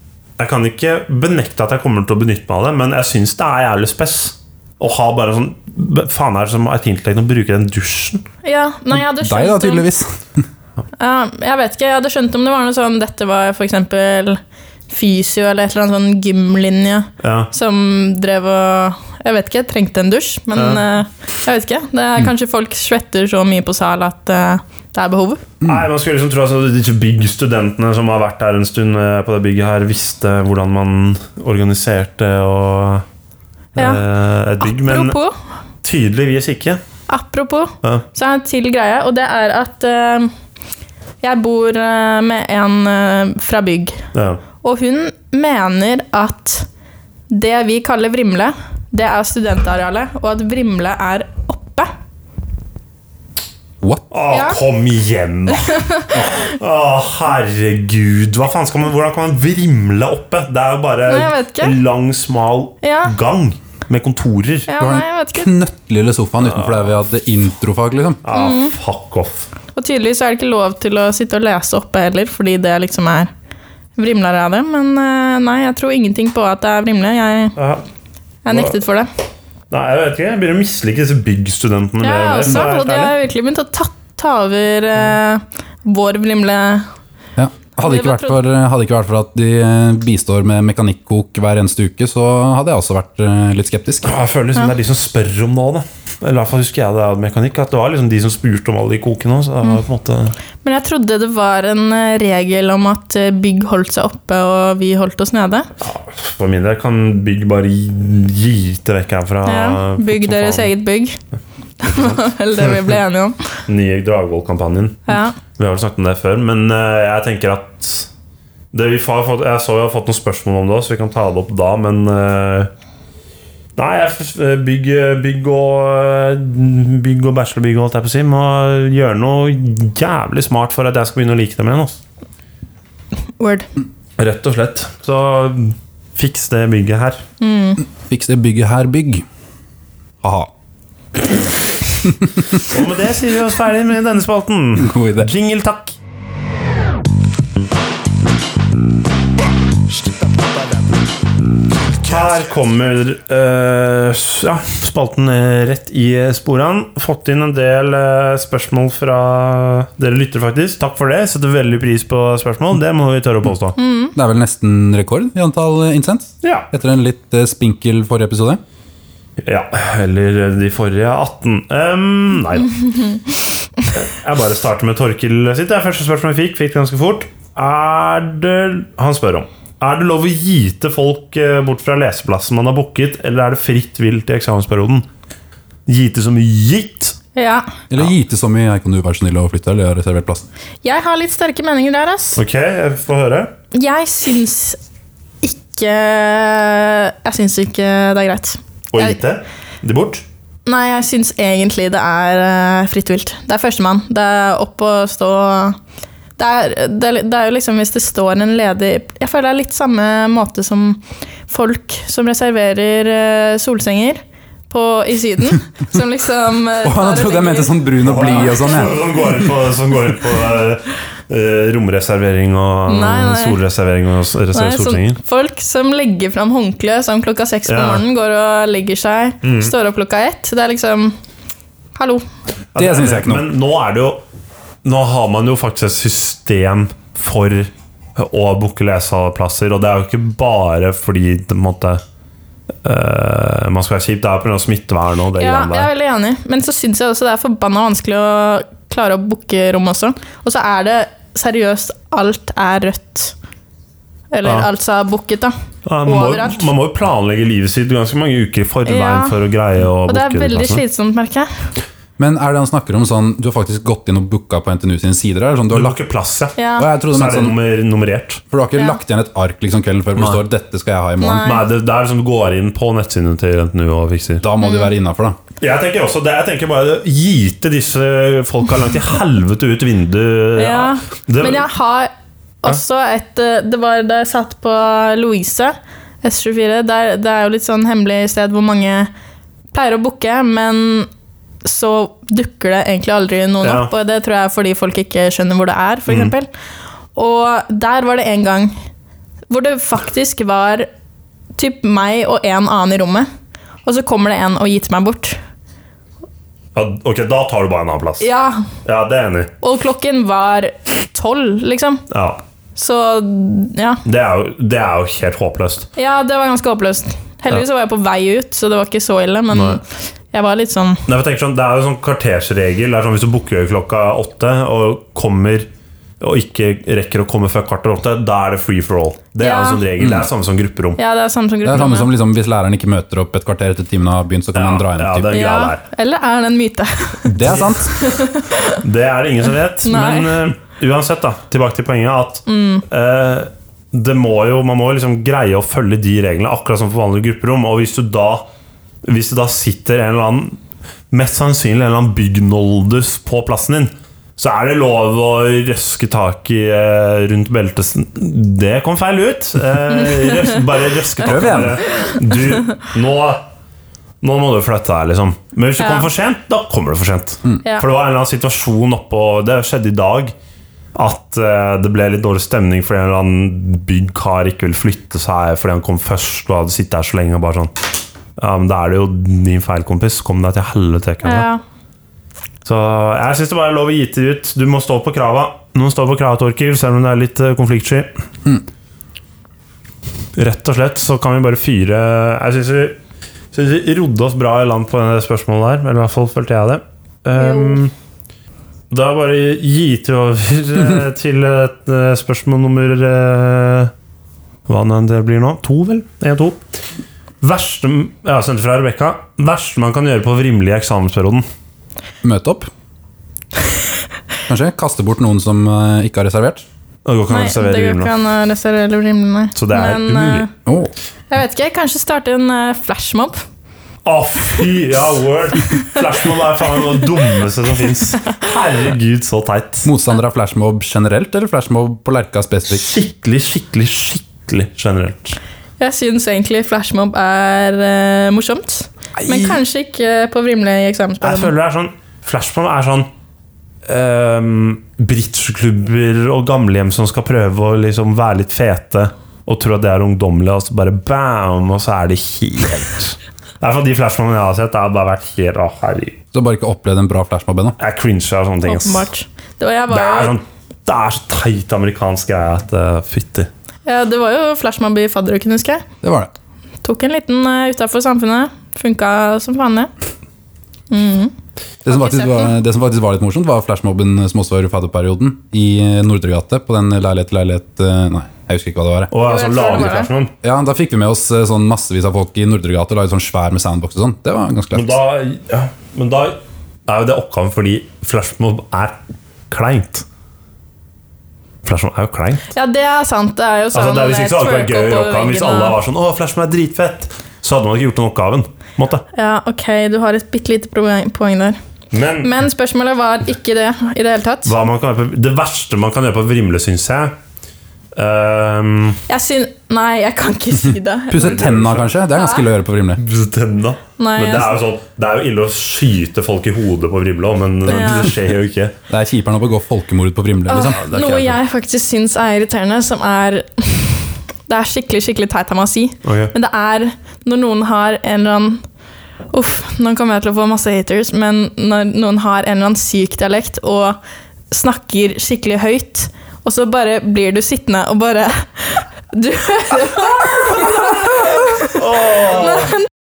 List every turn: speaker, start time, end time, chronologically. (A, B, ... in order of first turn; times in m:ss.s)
0:00.4-0:08.2 A
0:08.4-0:09.9 B
0:08.9-0:10.5 C
0:11.0-0:25.4 B
0:17.2-0:17.5 A
0:20.6-0:20.8 A
0:25.6-0:25.9 C
0:25.6-0:33.0 A
0:33.8-0:35.2 A
0:33.8-0:34.0 B
0:34.6-0:35.4 B
0:35.8-0:36.8 A
0:37.1-0:40.3 B
0:41.2-0:44.0 B
0:44.1-0:44.4 A
0:44.6-0:46.7 B
0:47.3-0:51.9 B
0:54.1-0:55.8 A
0:54.3-0:54.6 B
0:55.5-0:56.4 B
0:56.4-1:04.7 A
1:01.1-1:01.8 B
1:02.8-1:03.1 B
1:04.7-1:05.5 B
1:04.8-1:08.2 C
1:08.2-1:09.5 A
1:08.3-1:08.8 B
1:09.7-1:13.3 B
1:14.0-1:17.6 B
1:17.6-1:17.8 A
1:18.4-1:19.1 B
1:18.5-1:18.8 A
1:19.7-1:23.1 A
1:22.0-1:26.9 B
1:27.4-1:34.1 C
1:27.8-1:28.4 B
1:34.0-1:40.4 A
1:40.6-1:45.7 B
1:45.8-1:50.7 A
1:49.5-1:51.2 B
1:51.8-1:53.5 B
1:51.8-1:52.9 A
1:53.7-1:58.1 A
1:55.1-1:55.4 B
1:58.7-2:02.7 A
2:03.8-2:12.0 A
2:13.4-2:13.7 B
2:14.2-2:17.2 A
2:17.4-2:17.8 B
2:18.0-2:19.2 C
2:20.2-2:20.5 C
2:22.0-2:22.5 C
2:22.6-2:26.0 A
2:24.8-2:25.3 C
2:31.9-2:43.8 A
2:43.8-2:44.1 B
2:44.2-2:48.6 C
2:46.4-2:46.7 A
2:49.4-2:52.8 A
2:53.9-3:05.1 A
3:05.9-3:07.2 A
3:07.4-3:07.7 B
3:07.9-3:10.5 C
3:10.8-3:12.4 B
3:12.4-3:13.5 A
3:13.7-3:14.8 B
3:15.4-3:19.2 B
3:18.9-3:20.2 A
3:20.7-3:25.8 B
3:26.4-3:37.9 B
3:36.8-3:39.0 C
3:38.0-3:45.2 A
3:42.9-3:43.6 B
3:44.5-3:51.2 B
3:47.7-3:48.0 A
3:49.4-3:49.7 A
3:52.0-3:52.2 B
3:52.7-3:54.2 A
3:52.8-3:53.5 C
3:54.8-4:02.0 A
4:02.8-4:05.9 A
4:05.4-4:13.3 B
4:14.3-4:15.5 B
4:15.9-4:20.8 A
4:16.0-4:16.7 B
4:18.9-4:19.4 B
4:20.1-4:21.5 B
4:22.2-4:26.0 C
4:25.7-4:26.6 A
4:26.6-4:26.9 B
4:26.8-4:27.6 C
4:27.1-4:28.4 A
4:28.5-4:31.6 C
4:31.2-4:31.6 B
4:31.4-4:34.4 A
4:34.4-4:35.4 C
4:34.6-4:34.9 B
4:35.6-4:41.7 A
4:40.6-4:42.1 B
4:42.6-4:49.1 B
4:49.7-4:51.1 B
4:51.6-4:56.5 B
4:53.6-4:53.9 A
4:56.1-4:56.3 A
4:57.2-4:58.8 B
4:59.5-5:00.9 B
5:01.6-5:03.3 B
5:03.8-5:05.4 B
5:06.8-5:08.3 A
5:08.2-5:08.6 B
5:08.8-5:09.5 A
5:09.6-5:12.0 B
5:12.1-5:12.4 A
5:12.8-5:14.0 B
5:14.0-5:15.9 A
5:16.0-5:21.0 B
5:19.5-5:19.8 A
5:21.1-5:25.7 A
5:26.2-5:31.0 A
5:29.4-5:29.8 B
5:30.0-5:30.3 C
5:31.0-5:32.1 B
5:31.6-5:35.4 C
5:34.5-5:35.8 A
5:35.3-5:38.8 B
5:37.3-5:38.1 C
5:37.4-5:37.8 A
5:38.8-5:48.4 A
5:39.8-5:40.4 B
5:42.5-5:42.8 B
5:49.0-5:50.6 A
5:51.1-6:03.4 A
6:01.2-6:01.8 C
6:01.9-6:02.2 B
6:04.2-6:10.3 A
6:05.8-6:06.1 B
6:11.0-6:17.7 A
6:18.4-6:21.5 A
6:21.2-6:21.6 B
6:22.6-6:28.1 A
6:30.4-6:33.0 A
6:33.5-6:37.9 A
6:37.4-6:37.8 B
6:38.9-6:43.9 A
6:44.7-6:46.6 A
6:47.4-6:51.4 A
6:52.2-6:52.7 C
6:54.5-6:56.6 C
6:57.0-6:58.1 A
6:57.3-7:00.5 B
6:59.6-7:00.5 A
7:00.7-7:00.9 C
7:01.3-7:03.4 B
7:04.0-7:09.9 A
7:09.8-7:12.9 C
7:12.7-7:15.4 A
7:15.8-7:21.5 B
7:19.2-7:19.6 C
7:21.2-7:23.1 A
7:23.9-7:36.2 A
7:36.3-7:37.8 C
7:37.8-7:39.1 A
7:38.7-7:40.4 B
7:39.9-7:43.5 A
7:43.9-7:45.8 B
7:46.0-7:46.3 C
7:46.8-7:49.9 B
7:50.9-7:51.3 B
7:51.8-7:59.1 C
7:51.9-7:52.5 B
7:59.1-8:00.3 A
7:59.2-8:00.1 B
8:00.4-8:05.0 C
8:04.7-8:09.0 A
8:09.5-8:10.0 A
8:11.6-8:12.4 A
8:12.5-8:15.8 B
8:13.7-8:19.0 A
8:19.1-8:21.6 B
8:21.9-8:22.3 A
8:22.2-8:24.5 B
8:24.4-8:27.2 A
8:28.0-8:29.0 A
8:29.1-8:31.4 B
8:31.1-8:33.0 C
8:31.1-8:31.9 A
8:32.1-8:32.4 B
8:33.0-8:38.8 A
8:34.0-8:34.6 B
8:37.7-8:38.1 B
8:37.7-8:38.2 C
8:38.9-8:40.9 C
8:40.5-8:48.6 B
8:40.8-8:41.4 A
8:46.0-8:46.3 A
8:49.3-8:54.0 B
8:54.5-9:02.8 B
9:00.8-9:02.8 A